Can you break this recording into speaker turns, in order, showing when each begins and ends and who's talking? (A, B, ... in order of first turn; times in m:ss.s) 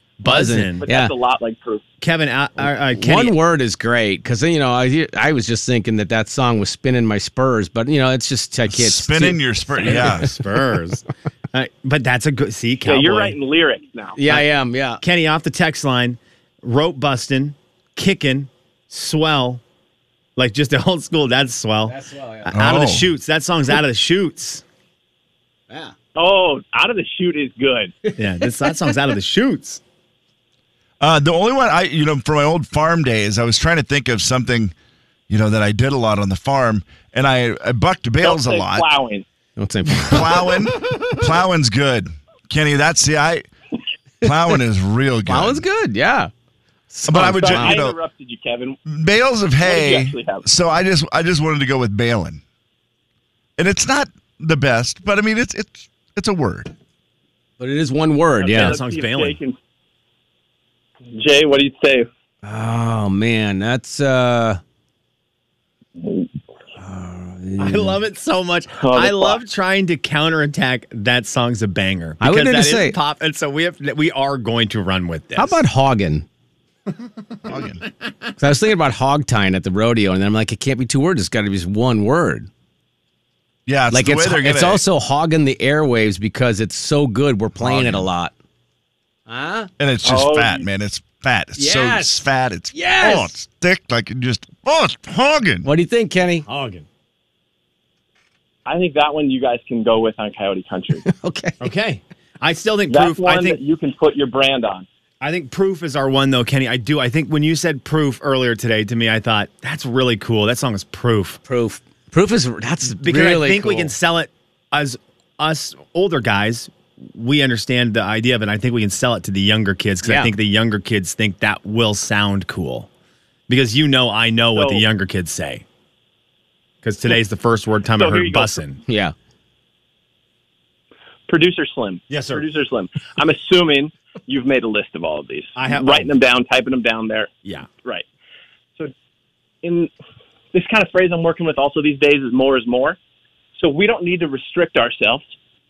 0:00.2-0:00.8 A
0:00.2-0:01.1 B
0:00.8-0:01.8 C
0:02.0-0:03.4 A
0:02.6-0:10.3 B
0:08.7-0:10.4 D
0:09.8-0:13.4 A
0:12.8-0:14.2 C
0:14.2-0:15.0 B
0:15.0-0:19.6 A
0:20.4-0:24.6 A
0:21.9-0:22.6 B
0:22.5-0:23.1 D
0:26.2-0:28.0 C
0:28.1-0:29.8 A
0:31.0-0:34.7 D
0:35.3-0:38.9 D
0:38.2-0:39.2 C
0:39.6-0:40.5 B
0:40.0-0:43.5 D
0:44.2-0:45.6 D
0:45.3-0:46.3 B
0:46.9-0:47.8 B
0:47.1-0:48.0 D
0:47.3-0:48.8 C
0:48.9-0:52.4 D
0:49.6-0:50.5 C
0:53.6-0:56.7 D
0:57.6-0:58.8 B
0:58.4-0:59.6 C
0:58.5-0:59.4 A
1:01.1-1:02.1 C
1:02.4-1:04.6 B
1:06.0-1:06.3 C
1:06.8-1:08.0 B
1:07.6-1:15.6 A
1:08.7-1:09.4 C
1:12.2-1:13.0 B
1:15.4-1:16.3 B
1:17.5-1:17.8 D
1:18.4-1:22.5 B
1:23.7-1:24.8 D
1:23.9-1:28.3 B
1:27.6-1:28.1 D
1:29.3-1:29.7 B
1:29.8-1:35.7 D
1:30.0-1:30.7 C
1:31.6-1:33.3 B
1:35.6-1:36.5 B
1:36.5-1:36.8 A
1:38.7-1:41.0 C
1:41.0-1:41.6 B
1:41.6-1:43.6 A
1:42.9-1:44.9 C
1:45.2-1:51.4 A
1:51.5-1:53.9 B
1:53.0-2:02.9 A
2:00.0-2:00.3 B
2:03.5-2:05.6 A
2:04.6-2:04.9 C
2:06.8-2:08.8 A
2:07.9-2:08.6 C
2:08.9-2:09.1 B
2:11.3-2:17.3 C
2:12.1-2:12.5 A
2:15.6-2:16.1 A
2:19.6-2:19.9 C
2:20.5-2:23.0 C
2:23.6-2:25.3 C